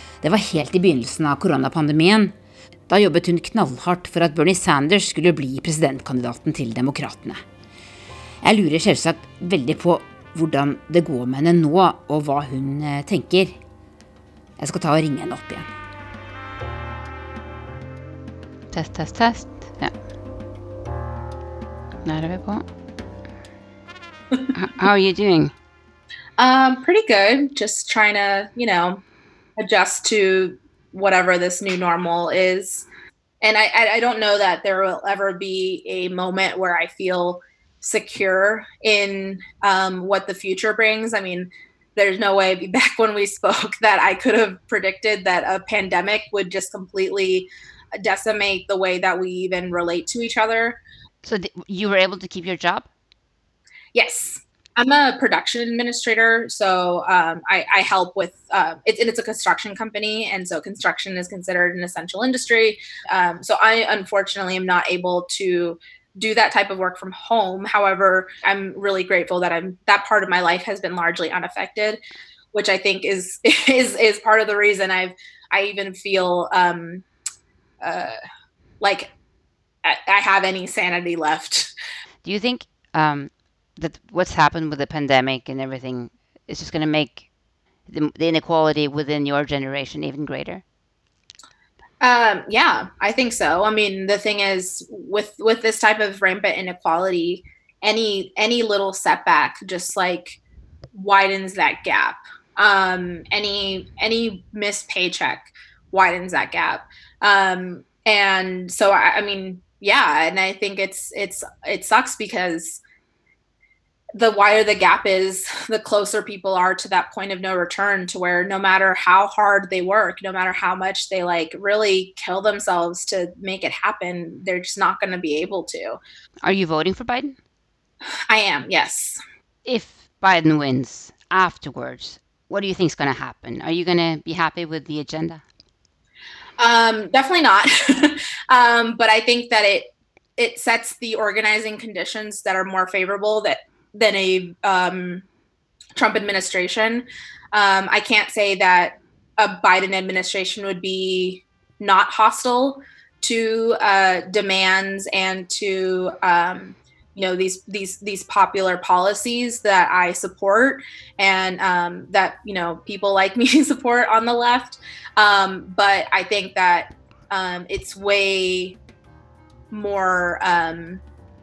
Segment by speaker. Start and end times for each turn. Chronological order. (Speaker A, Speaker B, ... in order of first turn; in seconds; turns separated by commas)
Speaker A: 0.2-2.3, Speaker A: 2.9-7.4, Speaker A: 8.4-13.6, Speaker A: 14.6-15.7, Speaker A: 18.7-19.9, Speaker A: 22.0-22.6, Speaker A: 24.5-25.5, Speaker B: 26.4-29.0, Speaker B: 29.6-32.9, Speaker B: 33.4-50.8, Speaker A: 51.2-52.9, Speaker B: 53.9-72.0, Speaker B: 72.5-77.0, Speaker B: 77.8-78.1, Speaker B: 78.8-79.1, Speaker B: 79.8-81.7, Speaker A: 82.2-87.2, Speaker A: 87.9-90.6, Speaker B: 92.0-100.4, Speaker B: 100.9-112.8, Speaker B: 114.1-126.0, Speaker A: 126.4-127.4, Speaker B: 128.3-129.2, Speaker A: 129.6-135.4, Speaker B: 136.6-145.2, Speaker B: 145.9-168.8, Speaker B: 169.7-171.0